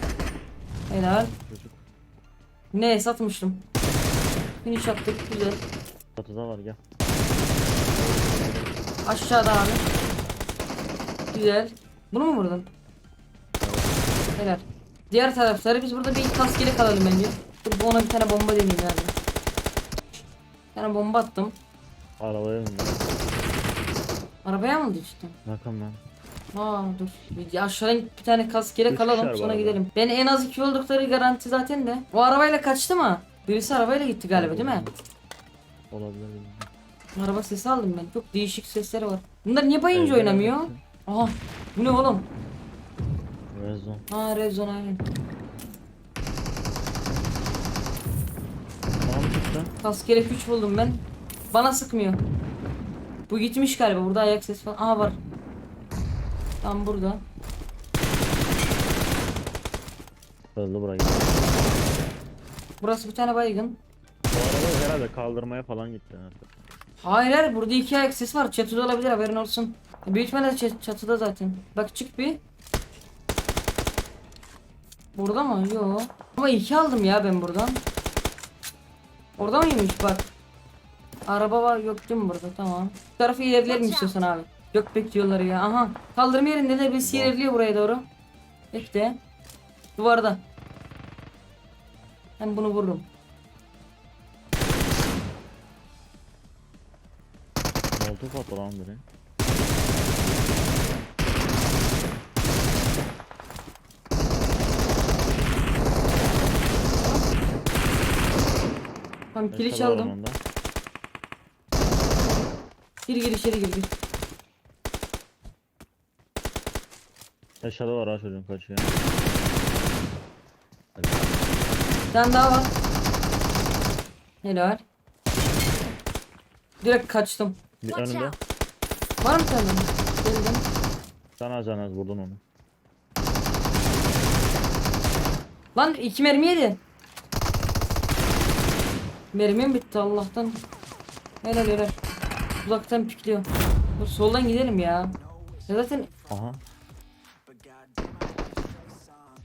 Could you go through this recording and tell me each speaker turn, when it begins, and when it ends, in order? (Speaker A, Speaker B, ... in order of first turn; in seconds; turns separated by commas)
Speaker A: 0.9-1.3, Speaker B: 1.1-1.8, Speaker A: 2.7-3.7, Speaker A: 4.6-5.6, Speaker B: 6.2-6.8, Speaker B: 7.9-8.7, Speaker A: 9.1-9.8, Speaker A: 11.3-12.7, Speaker B: 13.6-14.0, Speaker A: 14.4-19.1, Speaker A: 20.7-21.6, Speaker B: 22.2-23.0, Speaker A: 24.4-25.4, Speaker B: 25.5-26.0, Speaker A: 26.5-34.9, Speaker B: 28.9-29.8, Speaker B: 34.3-35.0, Speaker B: 35.9-36.7, Speaker A: 37.1-42.3, Speaker B: 39.9-40.8, Speaker B: 43.5-44.0, Speaker A: 44.1-45.0, Speaker B: 49.0-49.7, Speaker A: 49.8-52.2, Speaker A: 53.3-55.2, Speaker A: 56.6-57.2, Speaker B: 60.5-61.4, Speaker A: 62.8-63.8, Speaker B: 64.3-66.5, Speaker A: 67.0-72.4, Speaker A: 75.2-77.8, Speaker A: 79.4-80.3, Speaker A: 81.3-88.1, Speaker B: 87.0-87.4, Speaker A: 88.7-89.2, Speaker A: 90.0-90.4, Speaker A: 92.4-93.1, Speaker B: 98.0-99.0, Speaker A: 109.3-110.1, Speaker B: 109.5-110.4, Speaker A: 113.0-113.9, Speaker B: 117.6-119.0, Speaker B: 121.0-121.3, Speaker A: 122.1-122.8, Speaker A: 124.4-124.8, Speaker A: 126.8-127.6, Speaker B: 127.8-128.4, Speaker A: 129.2-130.7, Speaker B: 131.4-132.4, Speaker A: 135.8-136.8, Speaker A: 139.3-140.7, Speaker A: 141.4-142.0, Speaker A: 142.6-143.5, Speaker A: 144.0-146.1, Speaker B: 146.3-146.6